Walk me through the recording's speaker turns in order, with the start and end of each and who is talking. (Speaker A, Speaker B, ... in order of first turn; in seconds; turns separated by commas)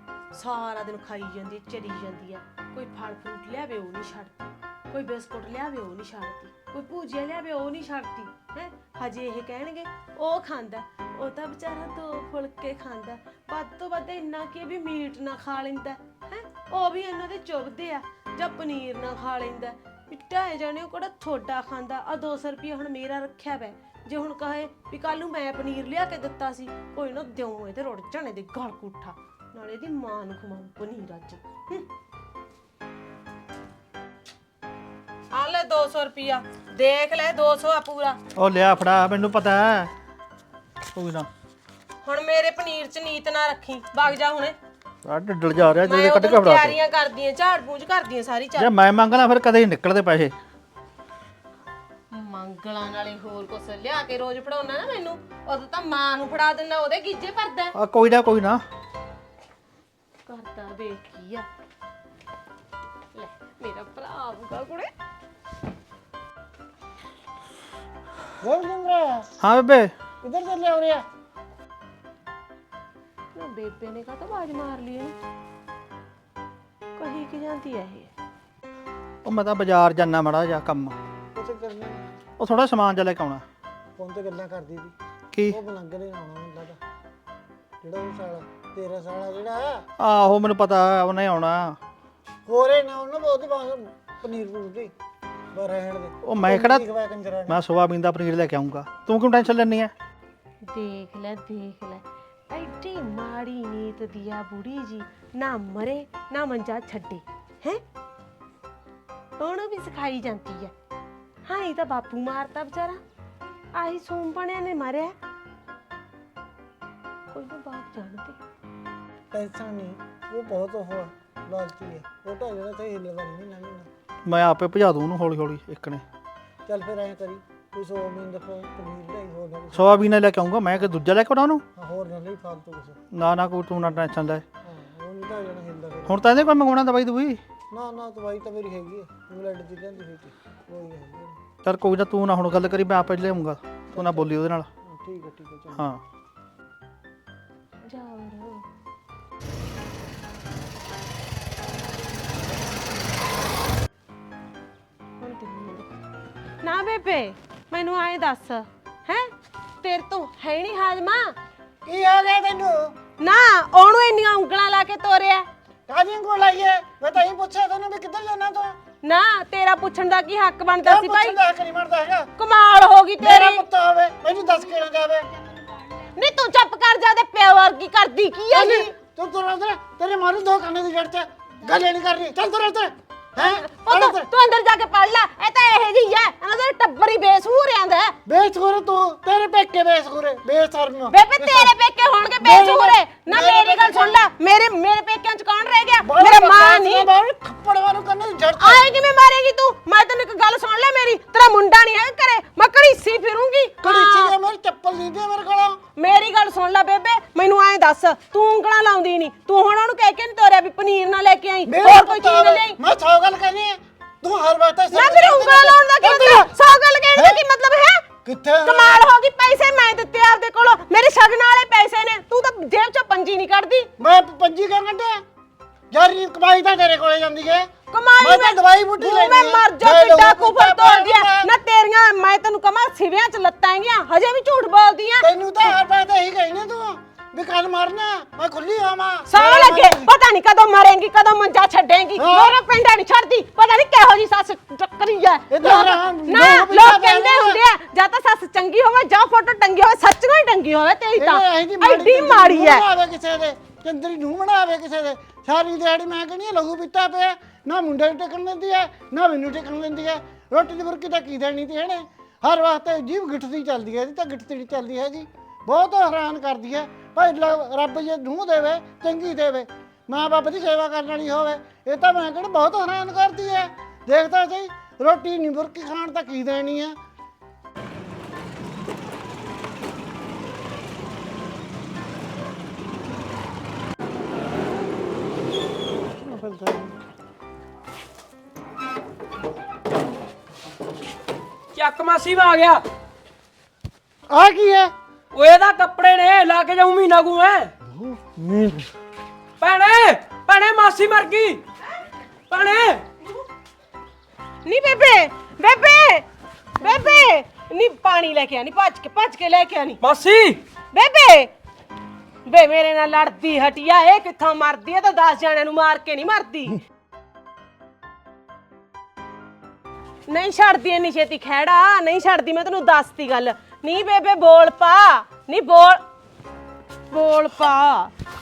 Speaker A: 0.3-31.9, Speaker A: 35.3-38.2, Speaker B: 38.4-39.9, Speaker B: 40.9-41.3, Speaker A: 42.0-44.5, Speaker B: 45.0-46.7, Speaker A: 45.8-48.7, Speaker B: 48.6-50.3, Speaker A: 52.1-57.7, Speaker B: 57.8-58.6, Speaker A: 60.3-61.5, Speaker A: 63.1-64.9, Speaker C: 68.4-69.3, Speaker B: 69.4-69.9, Speaker C: 70.2-71.0, Speaker A: 73.3-75.2, Speaker A: 77.0-78.1, Speaker B: 79.2-81.0, Speaker C: 81.3-82.0, Speaker B: 82.4-83.4, Speaker C: 84.0-84.9, Speaker B: 85.3-85.6, Speaker C: 85.5-86.8, Speaker C: 87.8-89.8, Speaker B: 90.0-91.8, Speaker C: 92.5-94.9, Speaker C: 95.5-97.6, Speaker B: 96.2-96.8, Speaker B: 97.5-99.9, Speaker A: 100.7-107.8, Speaker A: 109.4-110.7, Speaker A: 111.5-113.0, Speaker A: 113.7-115.1, Speaker A: 117.3-118.3, Speaker C: 119.3-123.9, Speaker B: 124.2-126.0, Speaker C: 126.7-130.1, Speaker B: 129.7-131.6, Speaker C: 131.7-133.0, Speaker B: 133.1-134.4, Speaker C: 134.6-136.3, Speaker B: 136.1-137.4, Speaker C: 137.7-141.4, Speaker B: 141.6-144.7, Speaker C: 143.9-145.9, Speaker B: 145.7-146.0, Speaker A: 147.8-148.6, Speaker A: 155.2-155.9, Speaker A: 156.6-159.3, Speaker A: 159.8-161.3, Speaker C: 161.8-162.9, Speaker A: 163.2-165.5, Speaker C: 165.9-168.8, Speaker A: 169.0-171.4, Speaker C: 170.8-172.3, Speaker A: 172.4-173.6, Speaker C: 173.2-175.3, Speaker A: 176.1-178.9, Speaker C: 178.5-184.3, Speaker A: 183.4-188.2, Speaker C: 188.2-191.7, Speaker A: 191.1-197.1, Speaker C: 192.4-194.2, Speaker C: 196.0-198.9, Speaker A: 198.6-204.3, Speaker C: 203.8-205.8, Speaker A: 205.9-212.8, Speaker C: 211.7-216.5, Speaker A: 214.9-218.1, Speaker C: 217.1-217.4, Speaker C: 218.2-219.1, Speaker A: 218.6-223.9, Speaker C: 224.0-225.2, Speaker C: 225.9-231.5, Speaker A: 227.9-235.7, Speaker C: 235.2-240.1, Speaker A: 239.3-252.8, Speaker C: 242.2-242.6, Speaker C: 245.5-247.6, Speaker C: 251.2-277.0, Speaker C: 286.0-287.0, Speaker D: 291.7-292.8, Speaker C: 294.3-294.9, Speaker D: 295.3-297.7, Speaker C: 297.8-298.9, Speaker D: 299.6-301.6, Speaker D: 302.5-303.1, Speaker A: 304.6-310.0, Speaker D: 310.0-310.6, Speaker A: 310.9-311.5, Speaker A: 312.5-316.8, Speaker A: 320.3-326.0, Speaker A: 327.1-328.1